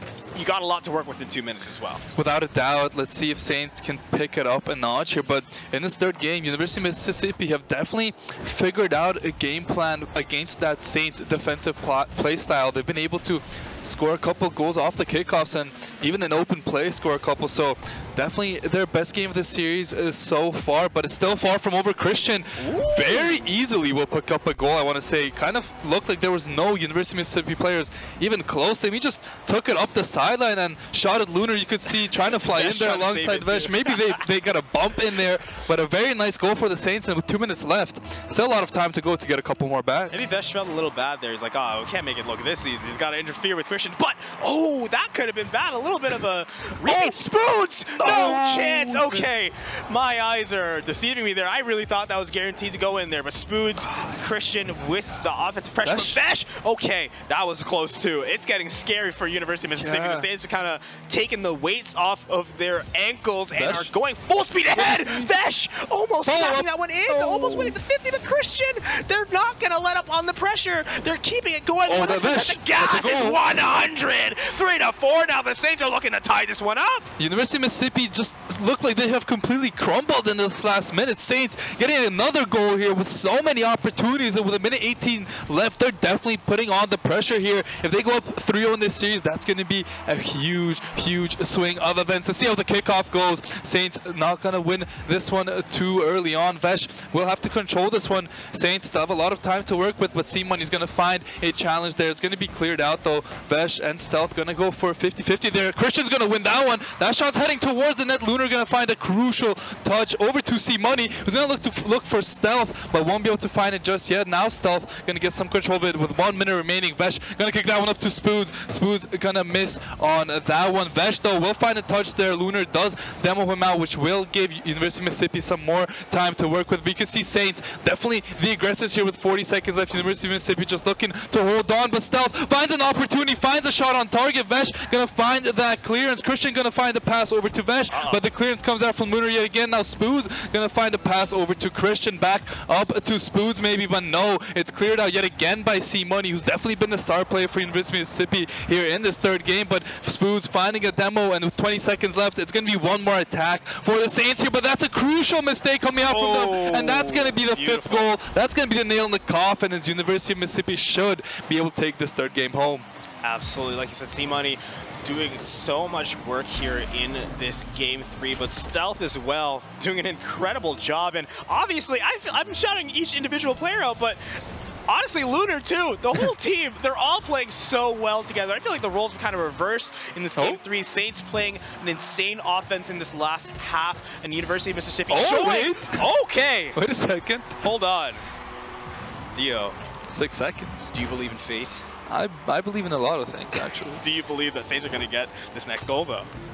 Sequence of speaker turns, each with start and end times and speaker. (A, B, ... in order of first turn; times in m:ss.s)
0:00.4-0:02.0 A
0:02.2-0:40.2 B
0:22.6-0:23.5 A
0:32.2-0:34.2 A
0:40.1-1:17.1 A
0:46.8-0:47.2 B
0:48.0-0:49.3 B
0:55.8-0:56.2 B
0:59.8-1:00.3 B
1:03.6-1:03.9 B
1:04.7-1:05.3 B
1:06.2-1:07.7 B
1:11.9-1:13.4 B
1:17.2-2:42.9 B
2:17.9-2:18.2 A
2:36.1-2:38.1 A
2:43.2-2:54.2 A
2:54.9-3:06.8 A
3:05.1-3:06.0 B
3:06.8-3:07.6 B
3:07.6-3:08.2 A
3:09.4-3:09.8 A
3:10.1-3:10.9 B
3:10.9-3:11.8 A
3:12.1-3:14.0 B
3:14.0-3:16.3 A